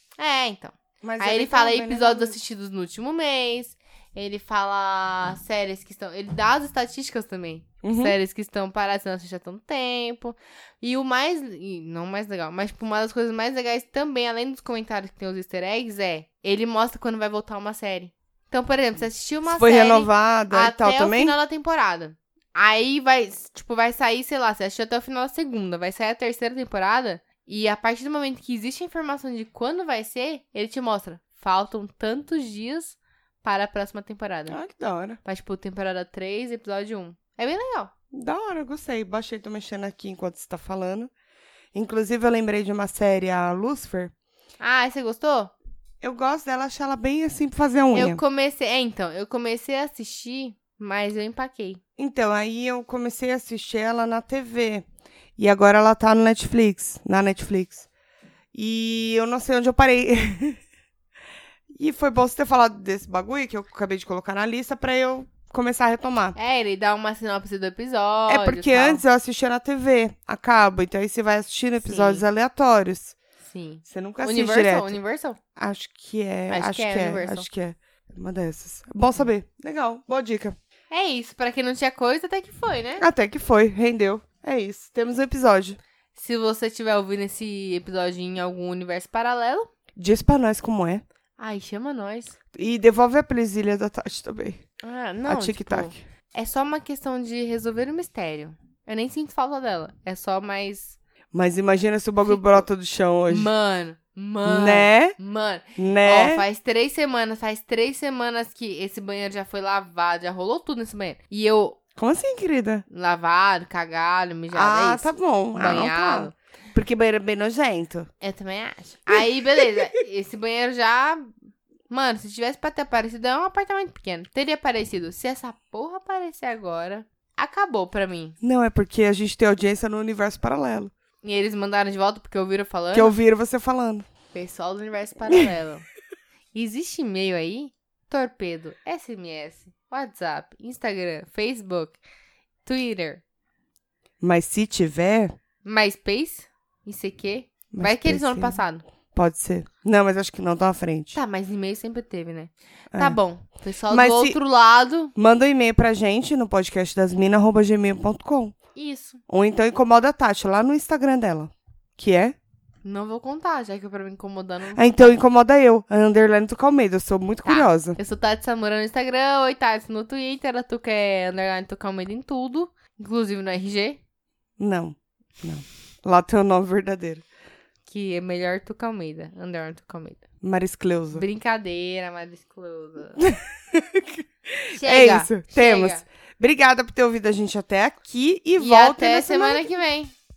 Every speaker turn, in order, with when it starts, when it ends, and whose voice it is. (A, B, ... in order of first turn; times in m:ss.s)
0:00.2-0:34.6 A
0:01.0-0:02.4 B
0:07.8-0:08.2 B
0:19.5-0:21.4 B
0:34.5-0:35.2 B
0:35.2-0:37.9 A
0:38.1-0:41.1 B
0:41.7-0:44.1 B
0:44.6-0:45.5 A
0:46.0-0:48.2 B
0:47.9-0:51.8 A
0:52.0-0:54.8 B
0:55.4-0:57.9 B
0:58.5-1:00.6 B
1:01.7-1:06.4 B
1:06.4-1:09.0 A
1:08.3-1:13.2 B
1:11.8-1:12.2 A
1:13.4-1:15.4 A
1:13.9-1:15.0 B
1:15.6-1:20.6 B
1:16.5-1:17.5 A
1:20.9-1:23.1 A
1:23.0-1:25.8 B
1:26.2-1:29.7 A
1:30.0-1:31.0 B
1:31.4-1:32.4 A
1:32.5-1:34.6 B
1:34.8-1:41.0 A
1:35.3-1:36.0 B
1:41.3-1:43.5 B
1:42.3-1:42.6 A
1:43.3-1:51.8 A
1:44.4-1:45.2 B
1:45.8-1:46.4 B
1:52.0-1:52.8 B
1:52.9-1:56.4 A
1:54.5-1:58.1 B
1:58.2-2:01.3 A
1:59.1-2:00.0 B
2:01.9-2:08.4 A
2:08.4-2:10.9 B
2:11.2-2:13.2 A
2:12.9-2:14.1 B
2:14.3-2:15.8 A
2:16.5-2:22.0 A
2:22.6-2:23.2 A
2:24.2-2:25.4 B
2:25.6-2:28.8 A
2:27.7-2:28.6 B
2:29.1-2:31.2 B
2:31.1-2:35.1 A
2:32.9-2:33.2 B
2:33.9-2:34.4 B
2:35.2-2:38.6 B
2:38.8-2:39.2 A
2:39.3-2:42.4 B
2:42.8-2:45.2 A
2:44.8-2:48.0 B
2:47.4-2:54.0 A
2:54.6-2:57.2 B
2:57.9-3:00.2 A
3:00.4-3:01.2 B
3:01.1-3:03.2 A
3:03.2-3:09.7 B
3:04.7-3:06.0 A
3:08.6-3:10.1 A